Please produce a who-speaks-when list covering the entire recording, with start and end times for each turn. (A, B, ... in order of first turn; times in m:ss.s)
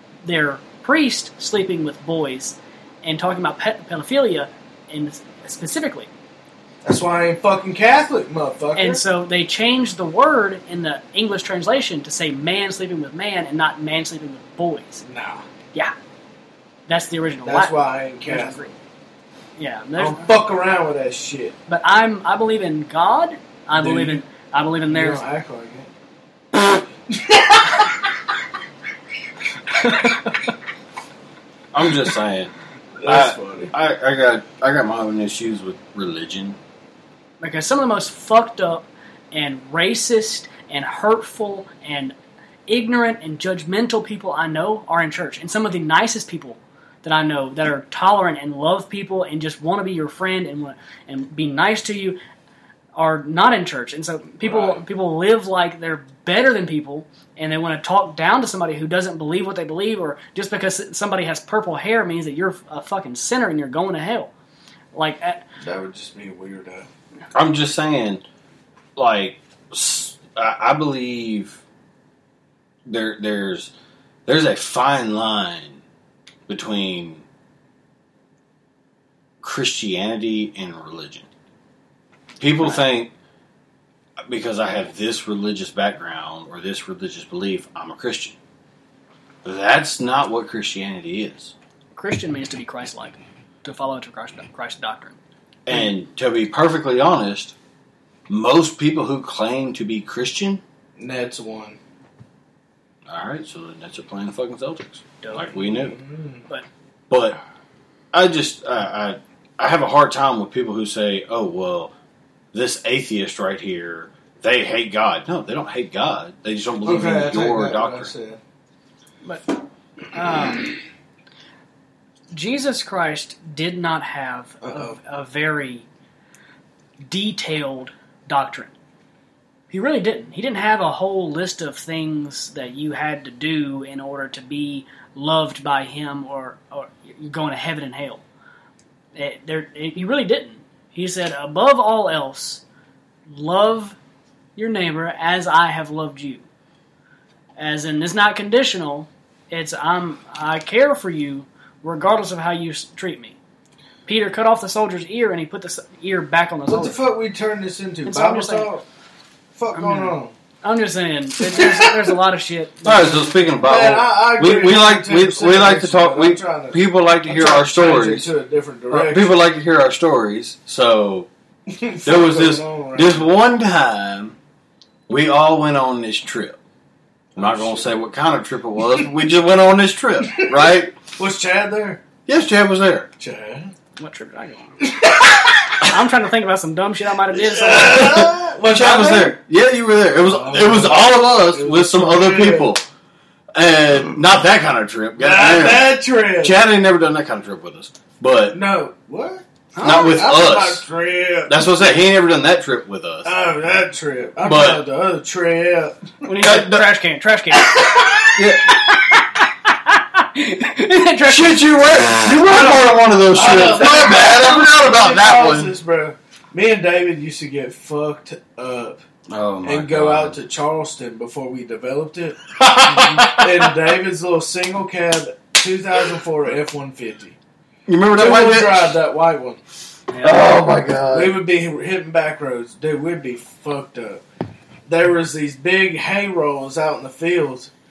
0:00.2-0:06.1 A
0:06.8-0:09.0 B
0:08.8-0:15.0 A
0:15.0-0:15.4 B
0:16.9-0:18.7 A
0:17.5-0:18.6 B
0:19.6-0:20.3 A
0:20.0-0:21.6 B
0:21.7-0:25.2 A
0:23.7-0:24.2 B
0:24.9-0:25.9 B
0:27.1-0:27.9 B
0:29.8-0:30.5 A
0:31.7-0:32.5 C
0:33.0-0:33.7 B
0:33.0-0:36.6 C
0:37.4-0:42.1 A
0:42.7-0:52.2 A
0:53.0-1:04.3 A
0:54.4-0:54.8 B
1:04.9-1:05.4 A
1:05.6-1:06.9 B
1:07.3-1:08.2 C
1:09.0-1:11.6 C
1:12.9-1:13.7 C
1:14.3-1:15.8 C
1:16.5-1:17.2 C
1:19.4-1:21.3 C
1:22.4-1:23.1 C
1:24.3-1:28.4 C
1:29.4-1:31.5 C
1:32.0-1:35.2 A
1:35.7-1:37.6 C
1:38.3-1:40.6 C
1:41.0-1:41.8 B
1:43.1-1:46.0 C
1:45.2-1:45.6 A
1:45.7-1:46.4 B
1:47.1-1:47.4 C
1:48.1-1:51.9 C
1:52.5-1:58.1 C
1:56.8-1:58.4 B
1:59.2-1:59.6 A
2:00.1-2:00.7 A
2:02.3-2:05.9 A
2:04.6-2:05.0 B
2:07.0-2:08.7 A
2:09.7-2:18.2 A
2:19.2-2:22.6 A
2:23.3-2:24.0 A
2:24.6-2:26.4 A
2:27.6-2:33.4 A
2:34.1-2:37.0 A
2:36.7-2:38.8 B
2:38.1-2:38.7 A
2:39.6-2:40.3 B
2:39.7-2:43.3 A
2:41.5-2:42.0 B
2:42.8-2:48.3 C
2:43.6-2:49.3 B
2:48.9-2:51.3 C
2:51.7-2:53.3 B
2:52.0-2:54.4 C
2:55.1-2:56.6 C
2:57.4-2:57.9 B
2:57.4-3:00.9 C
3:00.2-3:02.0 B
3:02.3-3:03.1 C
3:03.2-3:03.7 B
3:04.0-3:08.2 A
3:04.8-3:05.7 B
3:07.3-3:09.4 B
3:07.8-3:12.8 C
3:10.2-3:12.7 B
3:13.6-3:18.6 C
3:15.2-3:16.6 B
3:18.5-3:21.7 B
3:19.8-3:20.2 A
3:19.8-3:20.8 C
3:21.5-3:23.3 C
3:23.2-3:26.3 B
3:24.4-3:24.8 C
3:26.2-3:31.7 A
3:26.4-3:26.9 C
3:27.7-3:28.3 B
3:28.4-3:28.6 C
3:31.2-3:35.7 C
3:32.6-3:39.0 B
3:39.3-3:40.4 C
3:39.6-3:47.4 B
3:42.6-3:43.7 C
3:47.9-3:48.9 C
3:48.1-3:49.6 B
3:50.1-3:50.4 A
3:50.2-3:51.4 C
3:51.1-3:54.2 B
3:54.9-3:57.7 B